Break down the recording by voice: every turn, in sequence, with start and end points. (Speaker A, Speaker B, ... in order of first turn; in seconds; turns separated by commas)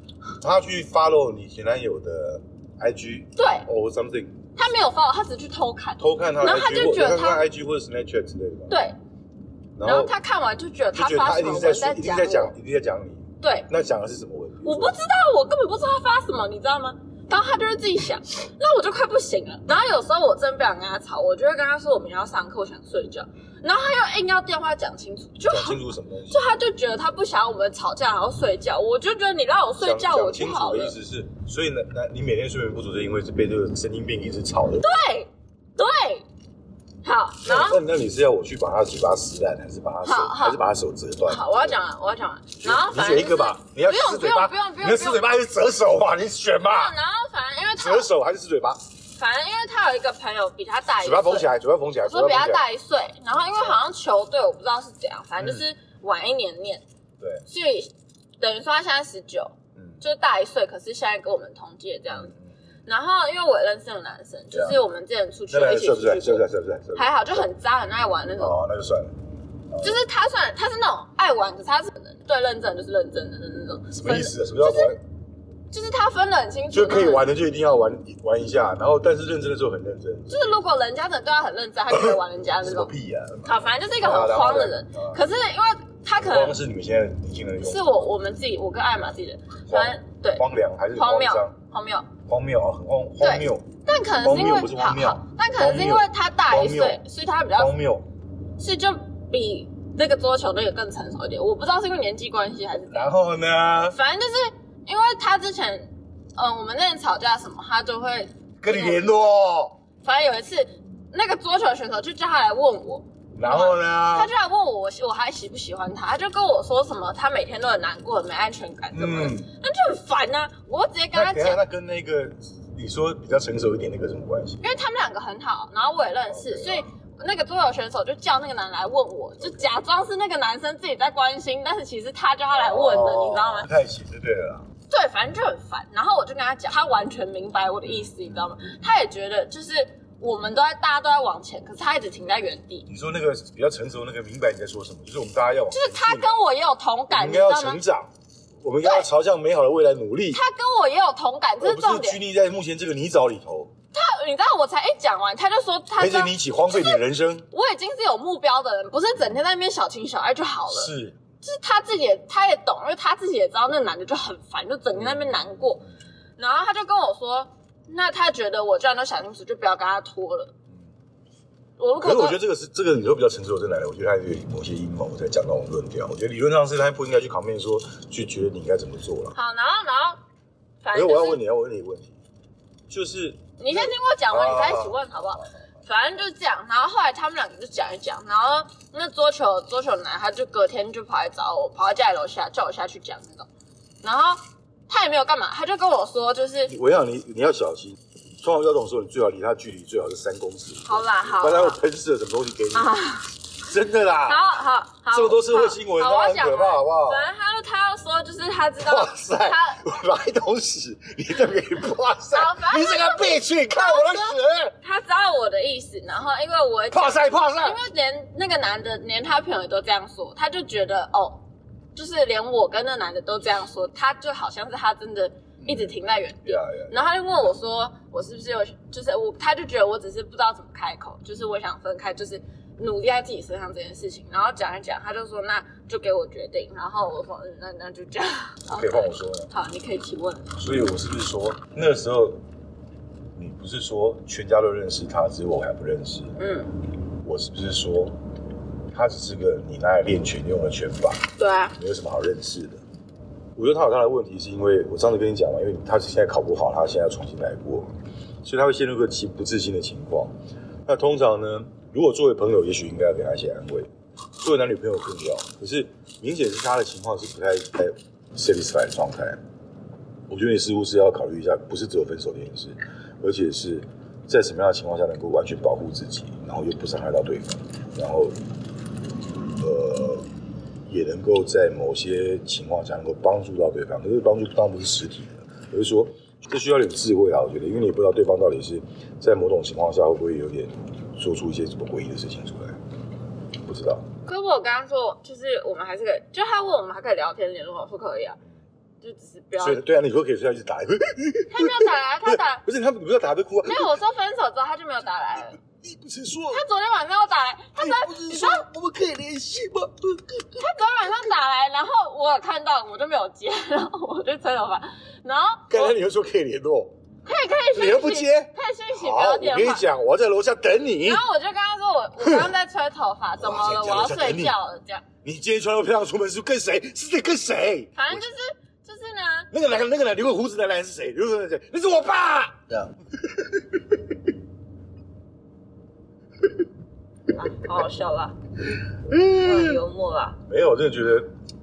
Speaker A: 0.4-4.4, Speaker B: 3.4-3.7, Speaker B: 4.5-7.4, Speaker A: 6.0-8.8, Speaker B: 8.7-8.9, Speaker A: 9.8-10.1, Speaker B: 9.8-12.5, Speaker A: 10.9-15.0, Speaker B: 13.4-13.7, Speaker B: 14.6-31.0, Speaker A: 25.5-26.5, Speaker A: 29.8-34.9, Speaker B: 34.8-36.2, Speaker B: 37.0-37.8, Speaker A: 37.4-41.8, Speaker B: 40.0-40.6, Speaker B: 41.3-45.3, Speaker A: 42.6-47.0, Speaker B: 46.6-48.1, Speaker A: 47.8-48.8, Speaker B: 49.1-51.5, Speaker A: 51.0-52.6, Speaker B: 52.0-56.8, Speaker A: 53.4-53.8, Speaker A: 55.4-55.6, Speaker A: 57.2-57.5, Speaker B: 57.5-62.3, Speaker A: 59.8-60.0, Speaker A: 62.1-62.5, Speaker B: 62.9-68.6, Speaker A: 64.5-64.8, Speaker A: 65.5-67.5, Speaker A: 68.4-69.2, Speaker A: 69.7-70.0, Speaker B: 69.8-75.0, Speaker A: 73.9-75.0, Speaker B: 75.7-77.3, Speaker A: 76.7-80.6, Speaker B: 80.3-82.9, Speaker A: 81.9-85.2, Speaker B: 83.5-86.6, Speaker A: 86.1-87.9, Speaker B: 87.6-90.4, Speaker A: 89.7-91.6, Speaker B: 90.9-92.1, Speaker A: 92.3-93.7, Speaker B: 93.2-97.7, Speaker A: 94.2-98.1, Speaker B: 98.6-103.1, Speaker A: 102.9-104.0, Speaker B: 103.9-109.1, Speaker A: 108.6-109.8, Speaker B: 110.0-121.6, Speaker A: 113.3-114.3, Speaker A: 118.9-119.5, Speaker A: 121.1-124.6, Speaker B: 124.6-133.7, Speaker A: 126.3-126.9, Speaker A: 129.4-129.7, Speaker A: 132.5-134.7, Speaker B: 134.9-142.9, Speaker A: 142.9-146.3, Speaker B: 145.7-147.8, Speaker A: 147.1-148.1, Speaker A: 148.6-150.4, Speaker B: 148.8-149.1, Speaker B: 150.3-152.2, Speaker A: 151.6-153.7, Speaker B: 153.9-165.8, Speaker A: 156.0-157.5, Speaker A: 160.7-161.2, Speaker A: 164.9-165.8, Speaker B: 166.4-170.5, Speaker B: 171.8-172.4, Speaker A: 172.0-179.3, Speaker B: 179.3-180.2, Speaker B: 180.8-181.4, Speaker A: 180.9-182.2, Speaker A: 182.9-185.5, Speaker B: 183.6-193.5, Speaker B: 194.0-196.7, Speaker A: 196.7-202.9, Speaker B: 200.8-201.8, Speaker B: 202.7-203.3, Speaker A: 203.6-204.5, Speaker B: 204.2-209.9, Speaker A: 205.1-207.3, Speaker A: 208.8-214.8, Speaker B: 212.3-221.4, Speaker A: 216.9-217.8, Speaker B: 221.9-240.6, Speaker A: 225.6-227.1, Speaker A: 238.7-239.5, Speaker A: 240.6-242.4, Speaker A: 243.3-246.4, Speaker B: 246.4-246.7, Speaker A: 247.2-248.2, Speaker A: 248.9-252.8, Speaker B: 251.4-251.8, Speaker A: 253.6-257.9, Speaker A: 258.4-260.3, Speaker A: 260.9-269.4, Speaker A: 270.3-278.4, Speaker A: 279.6-280.3, Speaker A: 280.9-292.8, Speaker A: 293.6-294.1, Speaker B: 294.2-298.4, Speaker B: 299.0-299.8, Speaker A: 299.6-304.0, Speaker B: 301.5-302.6, Speaker B: 303.6-305.6, Speaker A: 305.4-306.6, Speaker B: 306.5-308.6, Speaker A: 307.8-310.9, Speaker B: 310.6-315.9, Speaker A: 315.7-316.9, Speaker B: 317.2-319.9, Speaker A: 317.7-321.2, Speaker B: 321.0-325.1, Speaker A: 322.2-322.5, Speaker A: 323.4-324.6, Speaker A: 325.2-328.3, Speaker B: 327.9-329.5, Speaker A: 329.5-334.0, Speaker B: 337.3-338.4, Speaker A: 339.1-339.8, Speaker B: 339.3-340.4, Speaker A: 340.5-341.3